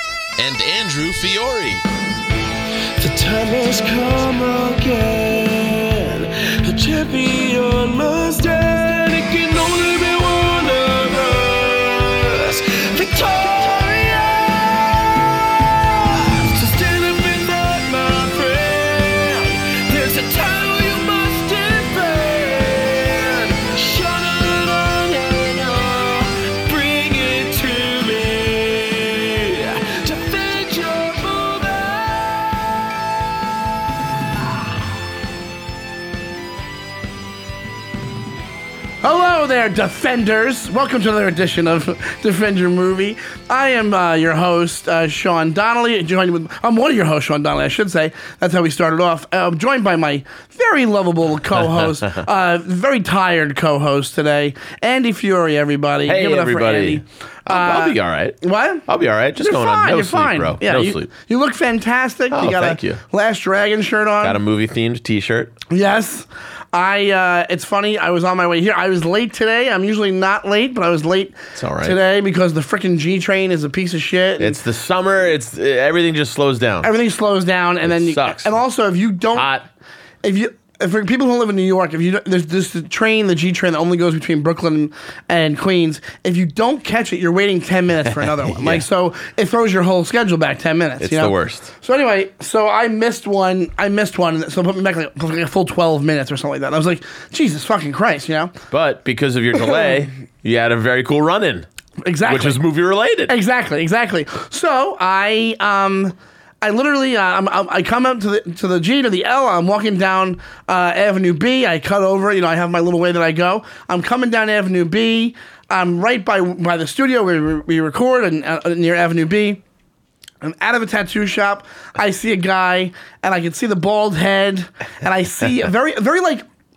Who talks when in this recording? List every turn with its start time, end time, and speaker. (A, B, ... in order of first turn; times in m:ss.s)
0:00.4-0:01.8 A
0:03.0-0:32.6 B
0:39.0-0:58.9 C
0:51.8-0:52.2 A
0:56.1-1:01.1 A
0:59.4-1:04.4 C
1:02.3-1:03.0 A
1:04.2-1:05.5 A
1:05.7-1:14.6 C
1:11.6-1:12.0 A
1:14.4-1:16.9 A
1:16.8-1:19.5 C
1:17.8-1:18.5 A
1:19.3-1:19.7 A
1:20.2-1:38.5 C
1:28.4-1:28.9 A
1:31.0-1:31.7 A
1:38.7-1:41.7 A
1:42.0-1:42.6 C
1:42.3-1:43.3 A
1:43.3-1:59.6 C
2:00.4-2:06.4 C